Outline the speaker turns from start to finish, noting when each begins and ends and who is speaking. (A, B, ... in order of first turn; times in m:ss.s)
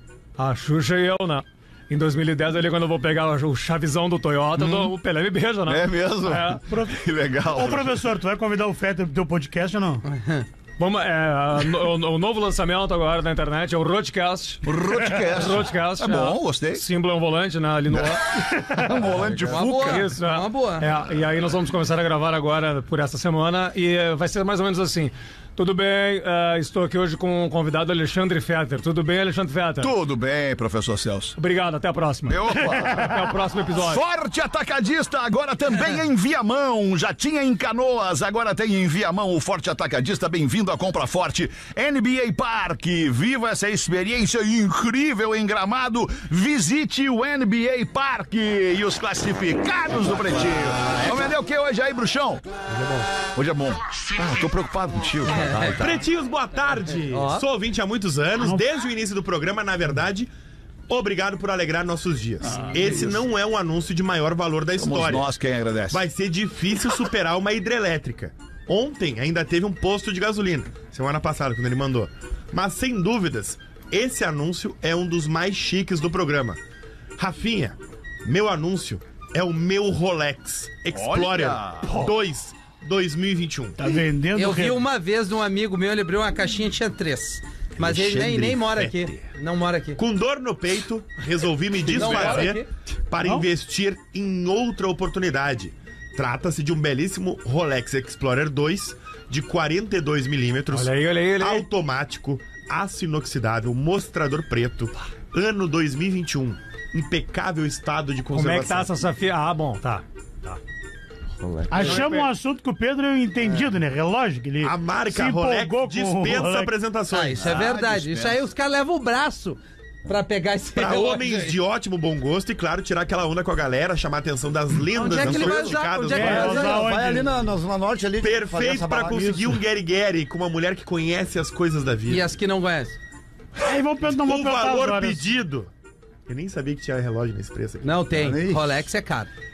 0:00.4-0:06.6 A
0:04.6-0:05.0 B
0:05.7-0:08.1 B
0:06.7-0:10.0 C
0:10.0-0:10.4 D
0:10.8-0:29.9 A
0:14.6-0:16.8 B
0:17.9-0:20.1 B
0:19.4-0:20.9 D
0:29.8-0:31.4 B
0:31.4-0:34.0 A
0:32.3-0:52.4 B
0:52.7-0:53.1 E
0:53.3-0:55.9 B
0:55.3-0:55.8 D
0:55.8-1:00.3 E
0:57.1-0:57.4 D
1:00.9-1:05.3 E
1:02.4-1:03.2 B
1:04.8-1:06.0 B
1:05.9-1:16.6 E
1:17.2-1:23.9 E
1:20.9-1:21.9 B
1:23.8-1:24.8 C
1:24.3-1:30.0 D
1:27.8-1:29.2 E
1:30.0-1:48.9 E
1:31.9-1:32.7 D
1:33.2-1:33.4 C
1:40.7-1:41.7 A
1:48.3-1:50.6 A
1:51.4-1:52.0 E
1:51.7-1:56.7 C
1:51.7-1:52.3 A
1:54.6-1:57.7 E
1:57.1-2:01.6 D
1:57.4-1:58.5 B
2:00.8-2:06.8 E
2:04.9-2:06.9 D
2:05.1-2:09.5 F
2:06.1-2:07.3 C
2:08.2-2:12.3 E
2:12.1-2:13.0 D
2:13.6-2:15.3 C
2:14.1-2:15.7 E
2:16.3-2:18.0 E
2:17.8-2:19.3 D
2:18.1-2:18.8 F